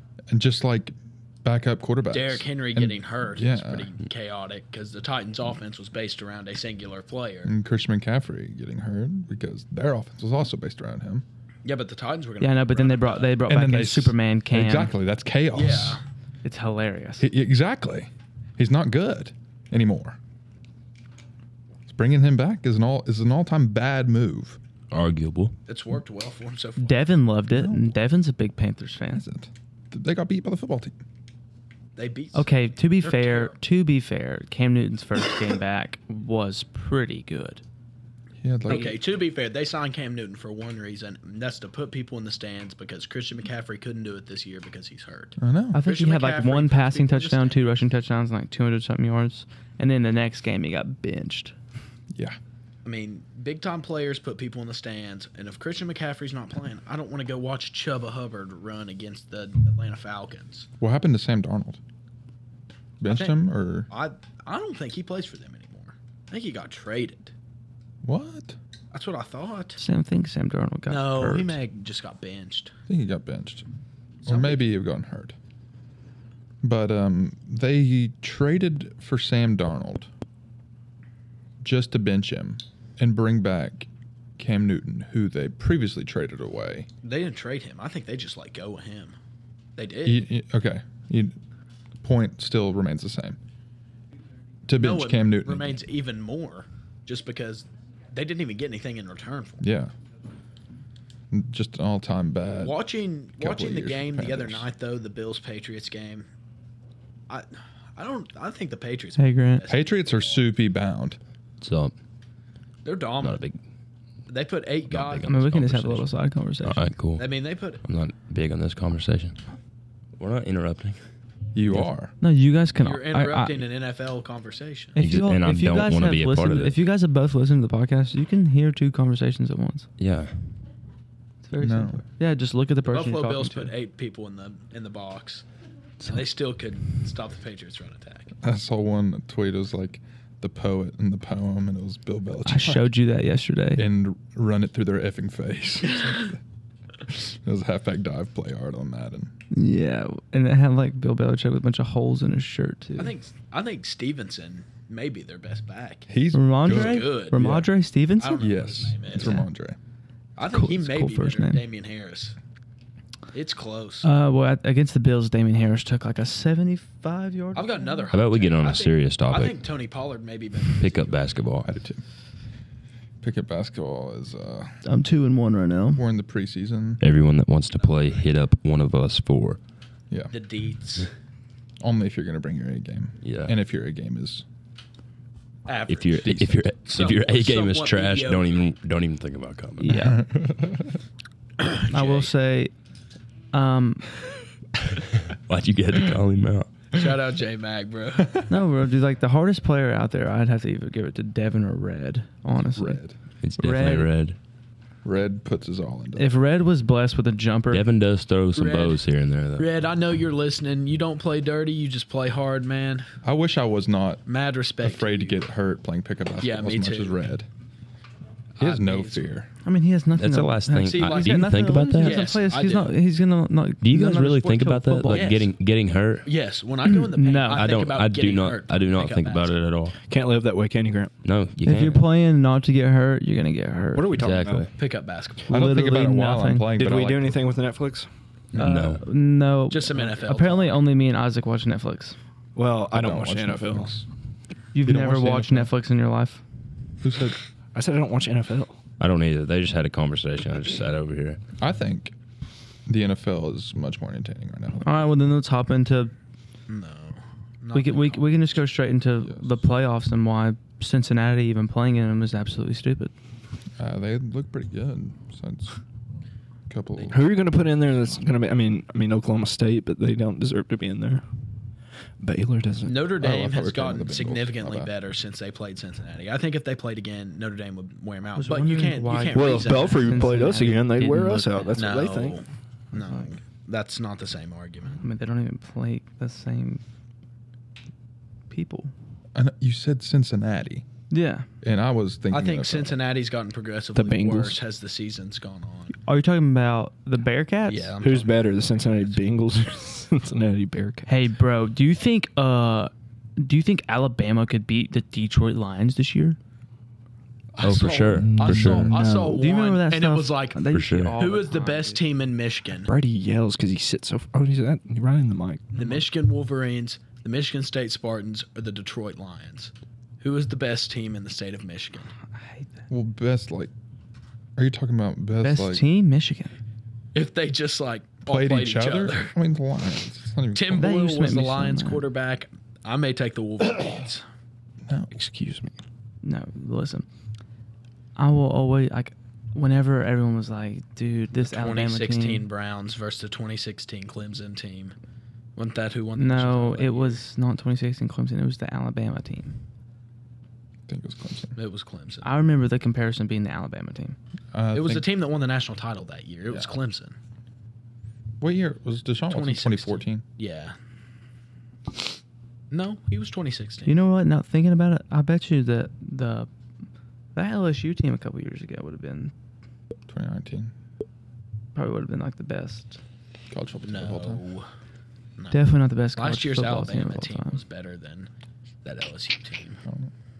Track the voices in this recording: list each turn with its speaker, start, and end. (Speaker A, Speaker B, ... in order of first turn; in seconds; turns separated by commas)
Speaker A: 0.3-3.9, Speaker B: 2.1-7.5, Speaker A: 7.4-11.2, Speaker B: 11.6-13.4, Speaker C: 12.4-14.9, Speaker A: 13.4-16.0, Speaker B: 15.5-16.0, Speaker C: 16.4-17.3, Speaker A: 17.2-20.2, Speaker A: 21.9-24.6, Speaker D: 24.9-25.6, Speaker B: 25.7-27.0, Speaker C: 26.8-29.2, Speaker A: 27.5-27.9, Speaker A: 29.1-31.0, Speaker B: 31.9-33.6, Speaker C: 32.3-37.6, Speaker A: 38.4-39.0, Speaker B: 38.6-47.8, Speaker C: 38.7-39.0, Speaker A: 45.4-45.8, Speaker C: 45.7-51.5, Speaker B: 52.8-60.7, Speaker A: 60.8-61.8, Speaker A: 63.0-63.9, Speaker B: 63.1-67.3, Speaker A: 68.0-68.6, Speaker B: 68.9-69.8, Speaker C: 69.8-71.6, Speaker B: 70.9-72.7, Speaker A: 72.9-73.6, Speaker B: 74.2-74.7, Speaker A: 74.2-75.3, Speaker A: 76.6-80.1, Speaker A: 81.6-86.9, Speaker B: 87.0-89.2, Speaker B: 89.8-90.2, Speaker A: 90.0-91.4, Speaker A: 92.0-93.4, Speaker A: 94.7-95.8, Speaker B: 94.8-99.6, Speaker A: 99.6-99.9, Speaker A: 101.3-104.7, Speaker B: 102.6-106.3, Speaker B: 107.3-110.4, Speaker C: 109.2-109.7, Speaker A: 109.7-111.2, Speaker D: 111.6-111.9, Speaker B: 112.8-113.4, Speaker D: 113.2-113.6, Speaker B: 114.3-115.4, Speaker D: 114.9-116.1, Speaker C: 115.3-116.8, Speaker D: 116.6-119.4, Speaker B: 117.2-117.8, Speaker D: 120.2-121.0, Speaker A: 121.5-122.1, Speaker C: 122.2-123.7, Speaker B: 122.8-125.0, Speaker C: 124.9-129.9, Speaker D: 125.0-126.8, Speaker D: 130.0-130.4, Speaker C: 131.4-133.7, Speaker A: 131.6-132.0, Speaker B: 132.8-135.4, Speaker B: 136.0-138.3, Speaker A: 138.4-142.9, Speaker C: 142.4-143.8, Speaker A: 143.7-146.4, Speaker A: 147.0-149.3, Speaker C: 149.5-153.2, Speaker B: 152.9-156.1, Speaker A: 156.1-157.7, Speaker C: 156.3-158.5, Speaker B: 156.6-157.6, Speaker B: 158.2-159.4, Speaker A: 158.4-159.8, Speaker C: 159.2-159.4, Speaker B: 160.4-162.3, Speaker C: 160.4-161.6, Speaker B: 163.3-164.1, Speaker C: 164.0-168.1, Speaker B: 167.5-171.4, Speaker D: 168.1-169.6, Speaker D: 170.7-171.7, Speaker A: 171.6-172.0, Speaker A: 173.2-174.8, Speaker C: 174.8-176.0, Speaker A: 175.9-177.0, Speaker D: 177.0-179.6, Speaker B: 177.8-178.2, Speaker A: 180.1-180.4, Speaker B: 180.3-181.1, Speaker A: 181.8-184.4, Speaker D: 183.2-183.5, Speaker B: 185.7-188.7, Speaker D: 185.9-190.0, Speaker C: 189.8-190.2, Speaker A: 189.9-191.0, Speaker B: 191.6-192.3, Speaker C: 191.9-192.7, Speaker C: 193.5-194.1, Speaker D: 194.9-196.7, Speaker B: 196.9-198.4, Speaker C: 198.5-203.0, Speaker A: 202.7-203.2, Speaker D: 203.4-204.3, Speaker C: 203.6-204.1, Speaker A: 205.0-206.3, Speaker C: 206.2-207.8, Speaker D: 207.7-209.7, Speaker B: 208.5-209.0, Speaker B: 209.6-213.1, Speaker A: 213.2-217.5, Speaker B: 214.2-215.4, Speaker B: 216.4-217.3, Speaker B: 218.6-219.4, Speaker A: 218.6-219.5, Speaker C: 219.6-225.3, Speaker D: 220.1-222.3, Speaker B: 220.8-223.0, Speaker D: 223.8-226.3, Speaker B: 225.1-225.5, Speaker B: 226.2-229.6, Speaker C: 226.9-227.7, Speaker D: 227.5-230.0, Speaker E: 230.1-231.1, Speaker D: 231.2-232.0, Speaker C: 231.6-234.2, Speaker E: 233.9-234.7, Speaker D: 234.2-234.7, Speaker B: 234.8-235.6, Speaker A: 235.5-237.4, Speaker C: 235.5-236.7, Speaker E: 236.8-238.1, Speaker D: 238.5-239.0, Speaker C: 238.5-242.2, Speaker B: 239.7-240.8, Speaker E: 242.6-244.0, Speaker A: 242.9-244.0, Speaker C: 244.7-246.4, Speaker A: 244.8-245.7, Speaker A: 247.0-247.4, Speaker E: 247.7-248.8, Speaker D: 249.0-251.4, Speaker A: 251.6-252.1, Speaker A: 252.9-255.1, Speaker C: 254.8-256.1, Speaker B: 256.7-258.4, Speaker C: 257.7-263.1, Speaker A: 259.2-259.5, Speaker A: 263.8-265.8, Speaker A: 266.7-267.6, Speaker E: 267.1-271.2, Speaker E: 272.2-273.1, Speaker B: 272.8-280.1, Speaker A: 273.1-274.9, Speaker C: 278.3-281.9, Speaker E: 279.3-282.4, Speaker B: 281.7-285.0, Speaker C: 282.9-283.3, Speaker C: 285.0-286.8, Speaker C: 288.5-288.9, Speaker A: 289.3-290.8, Speaker C: 291.1-291.5, Speaker A: 291.6-293.0, Speaker B: 292.3-295.9, Speaker E: 293.9-294.6, Speaker C: 296.0-298.0, Speaker B: 297.6-299.1, Speaker E: 298.0-301.2, Speaker C: 301.1-306.4, Speaker B: 307.6-312.9, Speaker D: 307.6-309.0, Speaker E: 308.1-309.4, Speaker C: 309.3-312.0, Speaker D: 310.7-311.2, Speaker E: 312.8-315.9, Speaker B: 315.7-322.1, Speaker C: 322.4-322.7, Speaker A: 322.9-323.7, Speaker A: 324.6-325.9, Speaker C: 325.4-326.6, Speaker B: 327.1-329.3, Speaker A: 328.2-330.9, Speaker B: 330.5-334.2, Speaker C: 330.7-332.1, Speaker A: 334.9-335.1, Speaker E: 335.1-335.7, Speaker C: 336.2-337.1, Speaker C: 338.2-342.5, Speaker B: 341.4-344.9, Speaker B: 345.6-347.2, Speaker C: 346.1-349.5, Speaker A: 350.9-351.6, Speaker B: 351.6-352.3, Speaker C: 352.2-354.2, Speaker A: 354.5-355.2, Speaker B: 354.7-357.1, Speaker A: 356.5-356.7, Speaker A: 358.4-360.2, Speaker B: 359.3-360.7, Speaker B: 362.7-363.9, Speaker C: 363.8-366.5, Speaker C: 367.3-369.3, Speaker A: 370.1-370.7, Speaker C: 371.7-373.0, Speaker A: 373.5-374.4, Speaker B: 373.8-374.7, Speaker B: 375.4-378.3, Speaker C: 375.5-377.6, Speaker B: 378.8-379.8, Speaker A: 379.8-380.1